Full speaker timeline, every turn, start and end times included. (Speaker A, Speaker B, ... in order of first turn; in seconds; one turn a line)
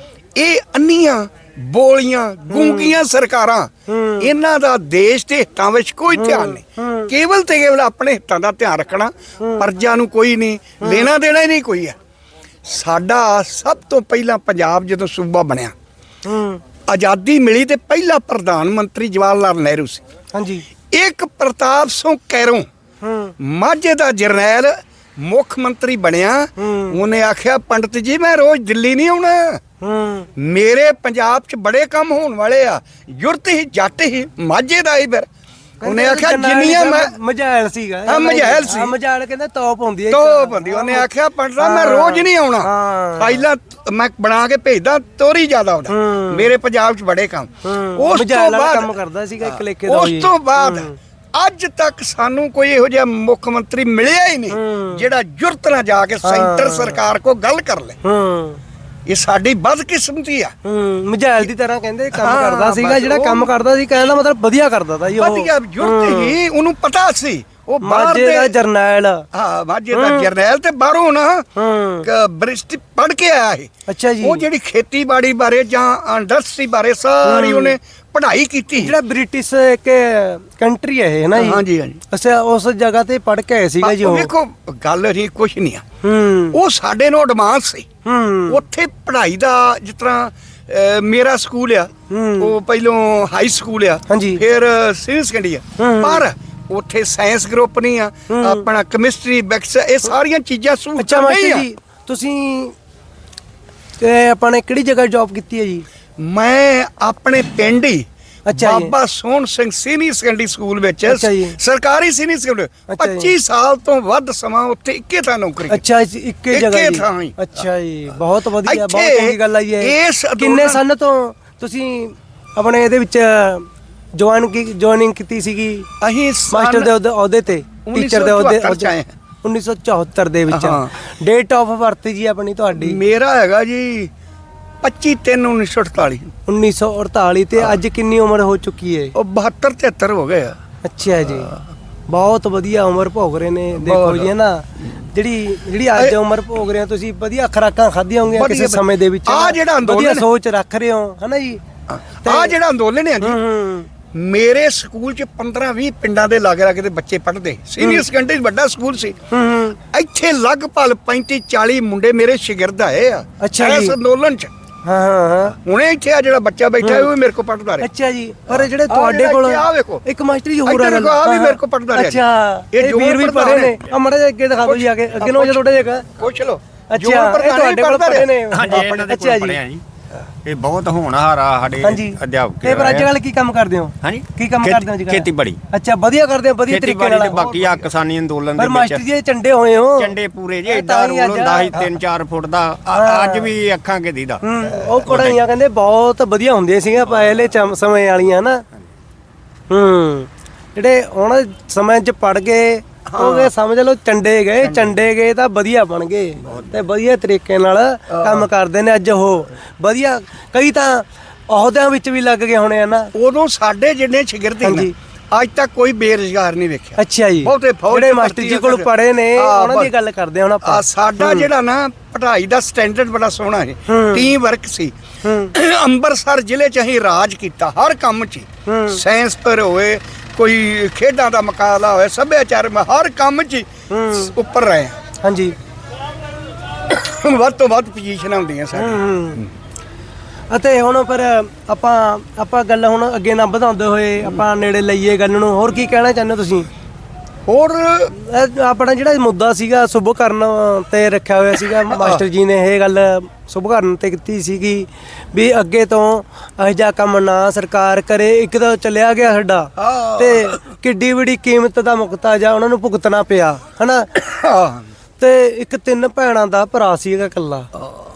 Speaker A: 0.4-12.0
Speaker B: 2.5-3.0
Speaker B: 3.9-4.3
Speaker B: 6.1-7.1
Speaker B: 9.4-9.7
Speaker B: 10.8-11.1
Speaker A: 12.7-15.7
Speaker B: 16.2-16.6
Speaker A: 16.9-20.0
Speaker B: 20.3-20.6
Speaker A: 20.9-22.7
Speaker B: 23.0-23.3
Speaker A: 23.4-29.6
Speaker B: 26.6-27.0
Speaker B: 29.8-30.3
Speaker A: 30.4-35.3
Speaker B: 35.8-41.1
Speaker A: 35.9-37.1
Speaker A: 38.1-39.0
Speaker A: 40.1-48.9
Speaker B: 41.6-43.5
Speaker B: 45.9-46.5
Speaker B: 47.6-50.9
Speaker A: 49.5-58.0
Speaker B: 54.5-55.0
Speaker B: 56.2-57.0
Speaker B: 58.0-58.6
Speaker A: 59.1-60.5
Speaker B: 60.6-66.3
Speaker A: 62.1-63.5
Speaker A: 65.2-68.5
Speaker B: 67.8-69.2
Speaker A: 69.3-71.5
Speaker B: 69.9-70.3
Speaker B: 71.6-72.1
Speaker A: 72.0-73.7
Speaker B: 73.9-74.5
Speaker A: 74.2-79.0
Speaker B: 77.2-77.8
Speaker B: 78.8-84.3
Speaker A: 81.3-82.0
Speaker A: 83.8-85.9
Speaker B: 86.0-86.6
Speaker A: 86.5-87.9
Speaker B: 88.0-88.6
Speaker A: 88.5-101.7
Speaker B: 92.1-92.5
Speaker B: 94.1-94.4
Speaker B: 95.8-96.2
Speaker B: 98.3-98.7
Speaker B: 101.0-102.8
Speaker B: 104.0-105.8
Speaker A: 106.2-115.8
Speaker B: 108.5-108.9
Speaker B: 111.1-111.6
Speaker B: 112.9-113.3
Speaker B: 115.7-125.9
Speaker A: 116.5-117.5
Speaker A: 118.6-120.8
Speaker A: 126.0-126.9
Speaker B: 126.5-128.9
Speaker A: 127.9-129.2
Speaker B: 129.4-133.0
Speaker A: 130.5-130.9
Speaker A: 132.8-134.1
Speaker A: 134.8-136.3
Speaker B: 136.5-139.2
Speaker A: 139.2-140.6
Speaker B: 140.8-141.5
Speaker A: 141.2-141.6
Speaker B: 142.1-151.6
Speaker A: 143.8-144.3
Speaker A: 148.4-150.3
Speaker A: 151.9-153.4
Speaker B: 152.2-152.6
Speaker B: 153.2-153.9
Speaker A: 154.1-159.2
Speaker B: 159.3-159.8
Speaker A: 159.9-164.5
Speaker B: 163.4-164.0
Speaker B: 164.9-165.6
Speaker A: 165.6-167.9
Speaker B: 166.8-167.1
Speaker B: 167.8-176.1
Speaker A: 168.5-170.0
Speaker A: 170.6-173.9
Speaker A: 174.6-178.8
Speaker B: 176.9-179.6
Speaker C: 178.5-179.8
Speaker C: 180.4-183.1
Speaker B: 181.8-187.5
Speaker C: 184.0-185.6
Speaker C: 186.7-189.0
Speaker A: 187.4-187.8
Speaker B: 188.6-190.1
Speaker C: 190.0-195.3
Speaker B: 190.7-191.9
Speaker B: 192.9-193.5
Speaker B: 194.4-198.6
Speaker B: 199.7-213.1
Speaker A: 203.1-203.5
Speaker A: 204.6-205.0
Speaker A: 206.4-206.7
Speaker A: 208.1-208.5
Speaker A: 213.1-219.9
Speaker B: 214.6-214.9
Speaker B: 217.0-221.5
Speaker A: 220.6-224.9
Speaker B: 223.9-224.3
Speaker B: 225.2-225.5
Speaker A: 225.5-235.0
Speaker B: 228.7-229.0
Speaker B: 233.9-234.3
Speaker B: 235.2-235.6
Speaker A: 236.7-239.5
Speaker B: 238.7-239.4
Speaker B: 240.5-246.7
Speaker A: 247.5-248.1
Speaker B: 248.2-264.1
Speaker A: 251.9-252.2
Speaker A: 259.8-260.6
Speaker A: 264.1-264.9
Speaker B: 265.2-267.7
Speaker A: 267.8-268.0